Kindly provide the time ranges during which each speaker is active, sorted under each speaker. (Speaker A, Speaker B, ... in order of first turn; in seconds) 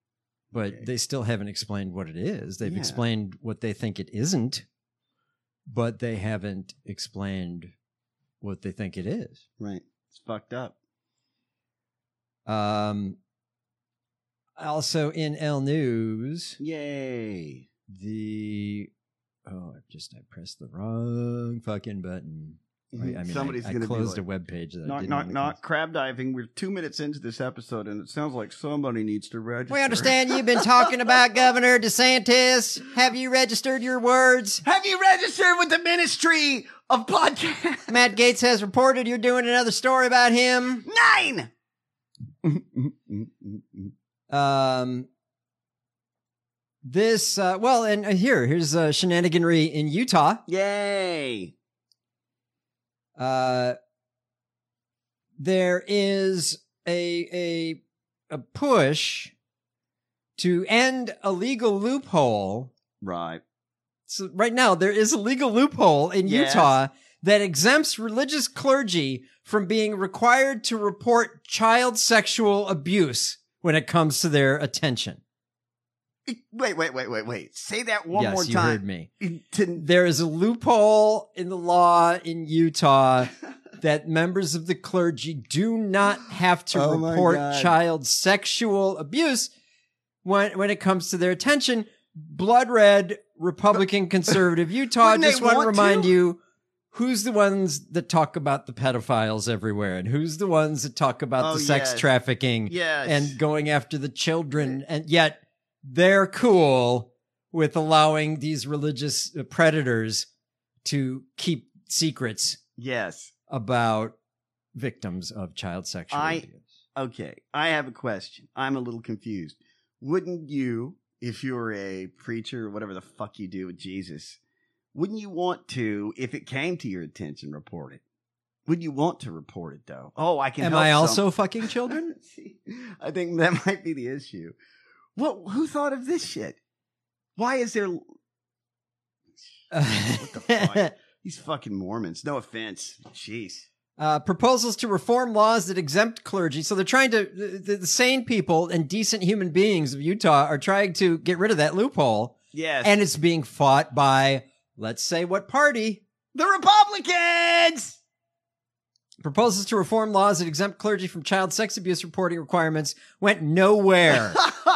Speaker A: 0.5-4.6, 5.7-7.7, 8.4-9.4, 12.4-13.2, 14.6-16.6, 17.9-18.9, 19.4-25.6, 29.7-34.6, 37.9-40.9, 44.3-45.1, 46.8-50.4, 53.2-53.8, 55.4-59.3, 60.4-62.7, 64.1-75.2, 78.1-79.1, 79.8-89.5, 90.2-96.4, 96.9-110.3, 110.8-112.6, 113.5-114.2, 114.7-116.7, 130.6-132.1, 139.7-140.9, 144.0-156.0, 159.2-164.4
Speaker B: 2.6-3.0, 9.6-10.7, 16.6-17.7, 22.9-24.2, 24.8-30.6, 34.6-38.0, 40.9-41.5, 42.4-43.9, 50.5-51.5, 63.0-63.4, 66.2-66.7, 76.2-79.8, 86.7-87.7, 95.0-96.1, 101.4-102.0, 102.7-103.4, 112.8-113.3, 116.1-124.4, 124.9-128.0, 128.7-131.3, 131.8-134.5, 135.2-136.6, 137.4-138.0, 140.0-143.7, 152.5-152.9, 156.3-158.0